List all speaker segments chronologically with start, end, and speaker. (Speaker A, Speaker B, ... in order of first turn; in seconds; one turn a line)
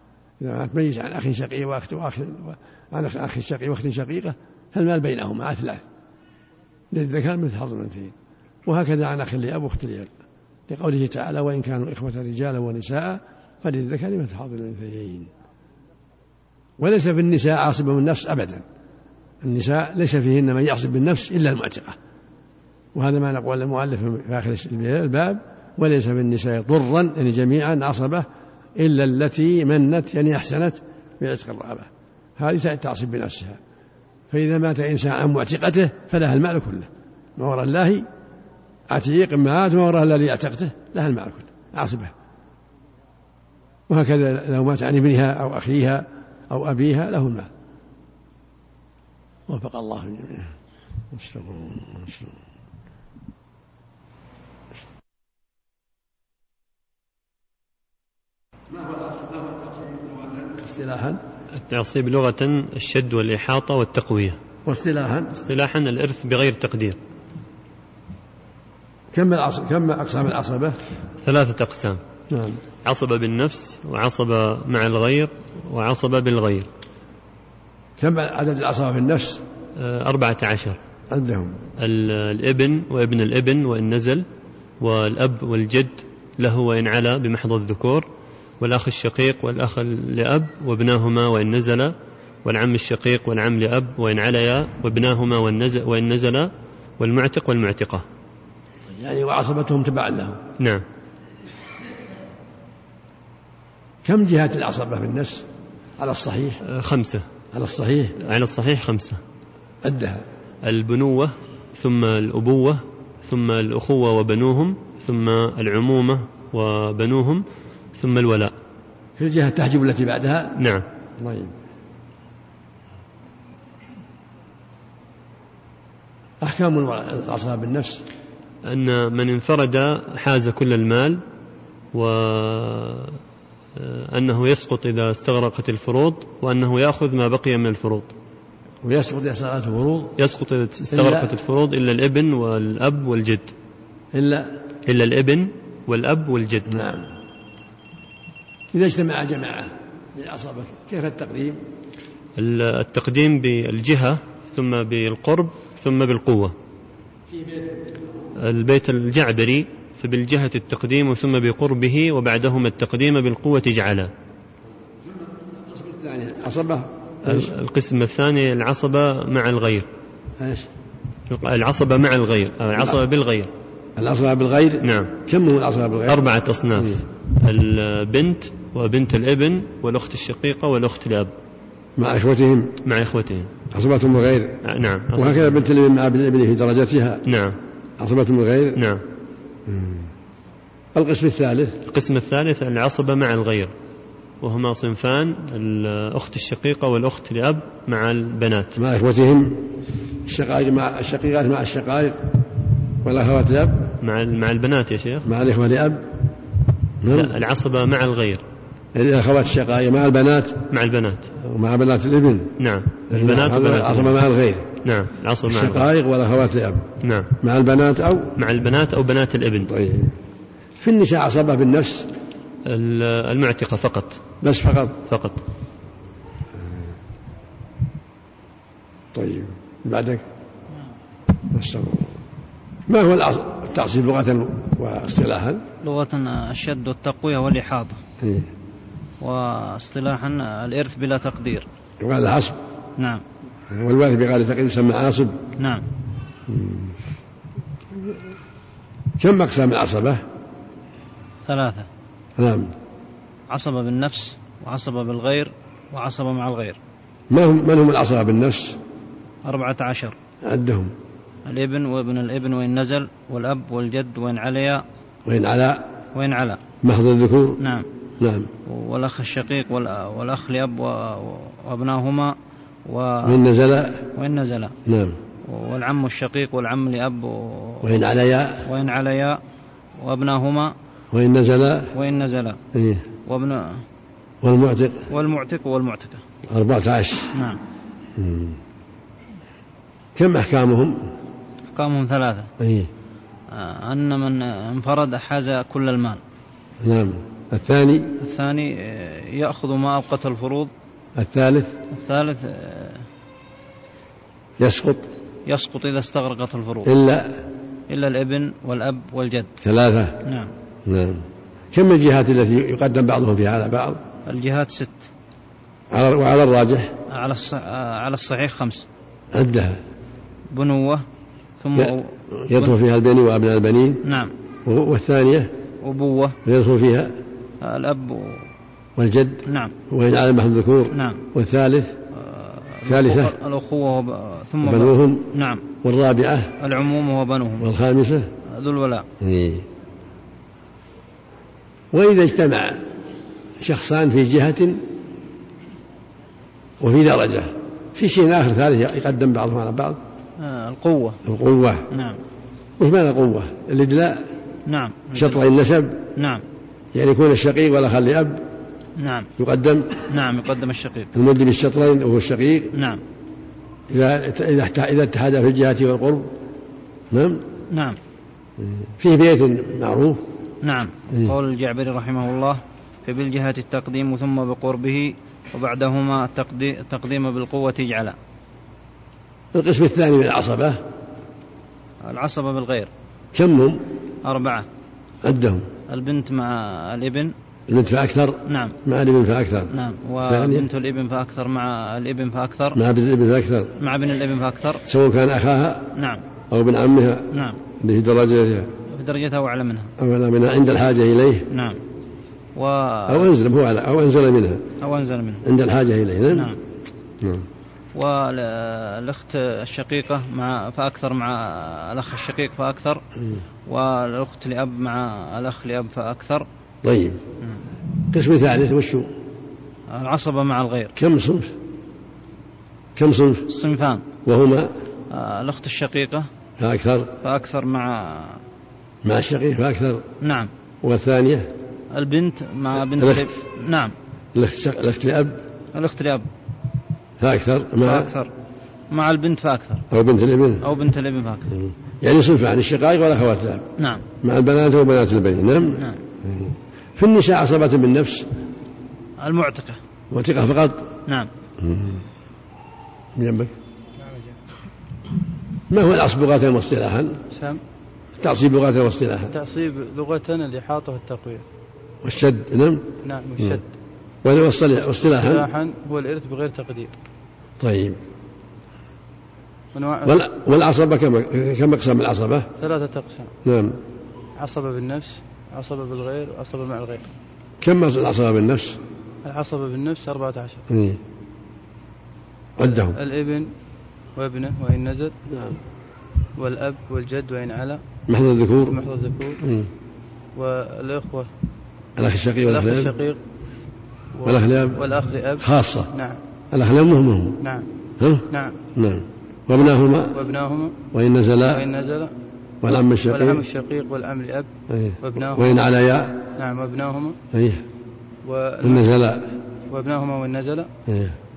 Speaker A: 0.4-5.8
Speaker A: 6.9-8.1
Speaker A: 8.7-10.1
Speaker A: 10.7-15.3
Speaker A: 16.8-18.6
Speaker A: 19.4-22.0
Speaker A: 22.9-28.3
Speaker A: 28.8-33.6
Speaker A: 34.3-38.1
Speaker A: 38.9-42.1
Speaker A: 43.9-47.5
Speaker A: 49.5-50.5
Speaker A: 51.1-52.4
Speaker A: 58.8-61.2
Speaker B: 61.6-64.4
Speaker A: 64.7-65.4
Speaker B: 65.3-67.0
Speaker A: 69.1-70.8
Speaker B: 71.2-72.0
Speaker A: 72.3-72.6
Speaker B: 72.8-76.7
Speaker A: 78.0-79.4
Speaker B: 79.8-80.8
Speaker A: 81.1-81.6
Speaker B: 81.8-84.2
Speaker B: 84.8-88.1
Speaker B: 88.6-98.0
Speaker A: 98.9-100.4
Speaker A: 104.0-105.5
Speaker A: 106.0-106.6
Speaker B: 106.7-107.2
Speaker A: 107.5-108.2
Speaker B: 108.2-109.2
Speaker A: 109.8-110.2
Speaker B: 110.6-118.5
Speaker A: 119.2-120.6
Speaker B: 120.6-120.8
Speaker A: 121.2-121.5
Speaker A: 126.4-128.0
Speaker B: 128.6-131.2
Speaker B: 131.9-133.2
Speaker B: 133.8-138.1
Speaker A: 138.8-140.2
Speaker B: 140.2-143.5
Speaker A: 140.9-141.3
Speaker A: 144.1-144.5
Speaker B: 144.9-146.7
Speaker A: 146.7-147.1
Speaker A: 148.7-151.6
Speaker B: 152.4-156.6
Speaker A: 157.3-157.6
Speaker B: 158.4-164.1
Speaker A: 165.1-167.5
Speaker B: 167.2-169.9
Speaker A: 170.4-170.7
Speaker B: 171.3-173.5
Speaker A: 174.0-176.2
Speaker B: 174.8-175.1
Speaker B: 176.1-181.3
Speaker A: 182.0-182.8
Speaker B: 182.8-183.5
Speaker A: 183.7-184.6
Speaker B: 184.6-185.7
Speaker A: 185.2-187.2
Speaker B: 187.2-187.6
Speaker A: 188.0-188.8
Speaker B: 188.8-189.0
Speaker A: 189.7-190.1
Speaker A: 190.9-191.8
Speaker B: 191.9-193.7
Speaker B: 194.4-198.8
Speaker A: 198.8-199.7
Speaker A: 200.3-202.3
Speaker A: 203.0-203.9
Speaker B: 204.0-205.3
Speaker A: 205.2-206.2
Speaker A: 207.0-207.3
Speaker B: 207.1-208.4
Speaker A: 208.9-210.7
Speaker B: 210.7-211.3
Speaker A: 211.4-212.6
Speaker B: 212.6-214.2
Speaker A: 213.1-214.7
Speaker B: 214.8-215.9
Speaker A: 215.5-216.9
Speaker B: 217.0-217.3
Speaker A: 217.4-218.3
Speaker B: 218.4-219.7
Speaker A: 219.7-220.2
Speaker A: 220.8-222.1
Speaker B: 222.7-224.2
Speaker A: 224.4-225.0
Speaker B: 225.1-225.4
Speaker A: 229.1-230.2
Speaker A: 231.5-232.2
Speaker A: 232.9-235.6
Speaker C: 235.8-238.0
Speaker A: 238.2-238.5
Speaker C: 239.2-241.7
Speaker A: 242.0-242.6
Speaker C: 243.0-243.2
Speaker A: 243.7-245.4
Speaker C: 245.6-245.9
Speaker A: 246.5-247.0
Speaker A: 249.2-250.2
Speaker C: 251.4-251.9
Speaker A: 252.4-252.7
Speaker C: 253.5-256.8
Speaker A: 257.3-258.8
Speaker C: 259.4-260.2
Speaker A: 260.4-260.9
Speaker C: 261.5-264.8
Speaker A: 265.3-265.9
Speaker C: 266.1-266.6
Speaker A: 266.8-267.6
Speaker C: 267.6-267.9
Speaker A: 268.2-268.5
Speaker C: 268.7-273.4
Speaker A: 273.2-274.1
Speaker C: 274.1-274.8
Speaker A: 274.9-275.2
Speaker C: 275.4-278.0
Speaker A: 277.8-278.7
Speaker C: 278.6-279.4
Speaker C: 280.0-280.7
Speaker A: 281.1-281.9
Speaker C: 281.9-282.6
Speaker A: 282.7-283.0
Speaker C: 283.3-283.8
Speaker A: 284.4-285.1
Speaker C: 285.1-286.2
Speaker A: 286.5-287.3
Speaker C: 287.3-287.6
Speaker A: 288.2-288.6
Speaker A: 290.2-291.0
Speaker C: 291.7-292.5
Speaker A: 292.6-292.9
Speaker C: 293.5-296.2
Speaker A: 296.8-298.1
Speaker C: 298.2-300.7
Speaker A: 301.2-301.8
Speaker C: 301.9-303.1
Speaker A: 304.6-305.1
Speaker C: 305.5-306.9
Speaker A: 306.9-307.4
Speaker C: 307.9-309.5
Speaker A: 309.6-310.2
Speaker C: 310.2-310.5
Speaker A: 310.9-314.0
Speaker C: 314.3-315.1
Speaker A: 315.9-316.9
Speaker C: 317.1-318.9
Speaker A: 319.3-319.8
Speaker C: 320.5-321.1
Speaker C: 321.6-322.7
Speaker A: 321.8-324.0
Speaker C: 324.0-324.3
Speaker A: 324.6-325.5
Speaker C: 325.8-326.4
Speaker A: 326.4-327.1
Speaker C: 327.6-328.5
Speaker A: 329.0-332.0
Speaker C: 329.5-329.7
Speaker C: 330.9-331.2
Speaker C: 332.1-335.6
Speaker A: 332.9-333.3
Speaker A: 334.6-335.3
Speaker A: 335.8-336.6
Speaker C: 336.6-337.7
Speaker A: 337.6-338.3
Speaker C: 338.5-339.1
Speaker A: 339.2-339.6
Speaker A: 341.9-342.8
Speaker A: 343.6-344.8
Speaker A: 346.8-350.0
Speaker C: 350.4-351.2
Speaker A: 351.2-351.9
Speaker C: 351.9-352.2
Speaker A: 352.8-354.2
Speaker C: 354.7-355.4
Speaker A: 355.1-356.0
Speaker C: 356.2-356.4
Speaker A: 356.9-358.4
Speaker C: 359.0-359.3
Speaker A: 359.4-360.0
Speaker C: 360.1-361.1
Speaker A: 361.1-362.7
Speaker C: 362.7-363.0
Speaker A: 363.9-366.3
Speaker A: 367.1-367.4
Speaker C: 367.7-368.0
Speaker A: 368.6-370.2
Speaker C: 370.6-378.2
Speaker A: 379.5-380.8
Speaker C: 382.0-382.9
Speaker A: 383.3-383.8
Speaker C: 384.2-384.7
Speaker A: 385.2-385.7
Speaker C: 385.9-387.3
Speaker A: 387.7-389.7
Speaker C: 388.5-388.8
Speaker C: 389.7-392.8
Speaker A: 390.2-390.7
Speaker A: 392.8-393.7
Speaker C: 393.8-394.8
Speaker A: 394.9-395.9
Speaker C: 395.9-396.2
Speaker A: 396.5-397.3
Speaker C: 397.3-397.6
Speaker A: 397.8-398.7
Speaker C: 398.9-399.9
Speaker A: 400.0-401.5
Speaker C: 401.5-401.8
Speaker C: 402.6-403.3
Speaker A: 403.1-404.6
Speaker C: 404.8-405.4
Speaker A: 405.4-406.5
Speaker C: 406.3-406.6
Speaker A: 407.2-407.5
Speaker C: 407.9-413.0
Speaker C: 413.7-416.5
Speaker A: 416.8-417.2
Speaker A: 418.1-419.1
Speaker C: 419.9-420.9
Speaker A: 421.0-421.5
Speaker A: 423.0-423.5
Speaker C: 423.5-424.0
Speaker A: 424.2-424.7
Speaker C: 425.1-426.3
Speaker A: 426.6-427.1
Speaker C: 427.2-428.4
Speaker A: 429.0-430.1
Speaker C: 430.2-430.5
Speaker A: 430.8-431.5
Speaker C: 431.9-433.9
Speaker A: 432.9-433.4
Speaker A: 434.4-435.4
Speaker C: 435.7-436.3
Speaker A: 437.2-438.1
Speaker C: 437.8-438.3
Speaker C: 438.9-439.9
Speaker A: 439.9-440.6
Speaker C: 440.6-441.5
Speaker A: 441.5-443.7
Speaker C: 443.8-444.0
Speaker A: 444.2-448.3
Speaker C: 445.7-446.0
Speaker C: 449.2-449.8
Speaker A: 450.1-450.9
Speaker A: 451.6-452.0
Speaker A: 453.2-453.5
Speaker D: 454.0-454.4
Speaker A: 455.7-457.2
Speaker D: 457.3-457.6
Speaker A: 458.2-459.3
Speaker D: 459.3-461.4
Speaker A: 462.0-462.9
Speaker D: 463.0-463.7
Speaker A: 464.2-465.4
Speaker D: 465.1-466.9
Speaker A: 467.6-468.0
Speaker D: 469.7-470.2
Speaker A: 470.1-472.5
Speaker D: 472.6-473.3
Speaker A: 473.4-473.8
Speaker D: 474.4-477.1
Speaker A: 477.6-478.8
Speaker D: 479.2-480.6
Speaker A: 480.7-481.0
Speaker A: 482.6-483.0
Speaker D: 482.9-483.5
Speaker D: 484.2-485.1
Speaker A: 485.3-485.6
Speaker D: 486.4-487.8
Speaker A: 488.1-488.8
Speaker D: 488.6-489.4
Speaker A: 489.4-489.7
Speaker D: 490.4-491.3
Speaker A: 492.0-492.9
Speaker D: 492.4-493.2
Speaker D: 494.1-496.2
Speaker A: 494.2-494.8
Speaker A: 495.4-495.9
Speaker A: 496.5-497.4
Speaker D: 497.4-497.7
Speaker A: 498.0-500.2
Speaker D: 498.3-498.6
Speaker D: 500.1-500.8
Speaker A: 500.9-501.7
Speaker D: 501.5-502.1
Speaker A: 502.6-503.4
Speaker D: 503.1-504.5
Speaker A: 504.7-506.2
Speaker D: 505.0-505.6
Speaker D: 506.4-507.2
Speaker A: 507.3-507.6
Speaker D: 508.2-508.9
Speaker A: 508.6-509.3
Speaker D: 509.7-510.7
Speaker A: 510.9-511.2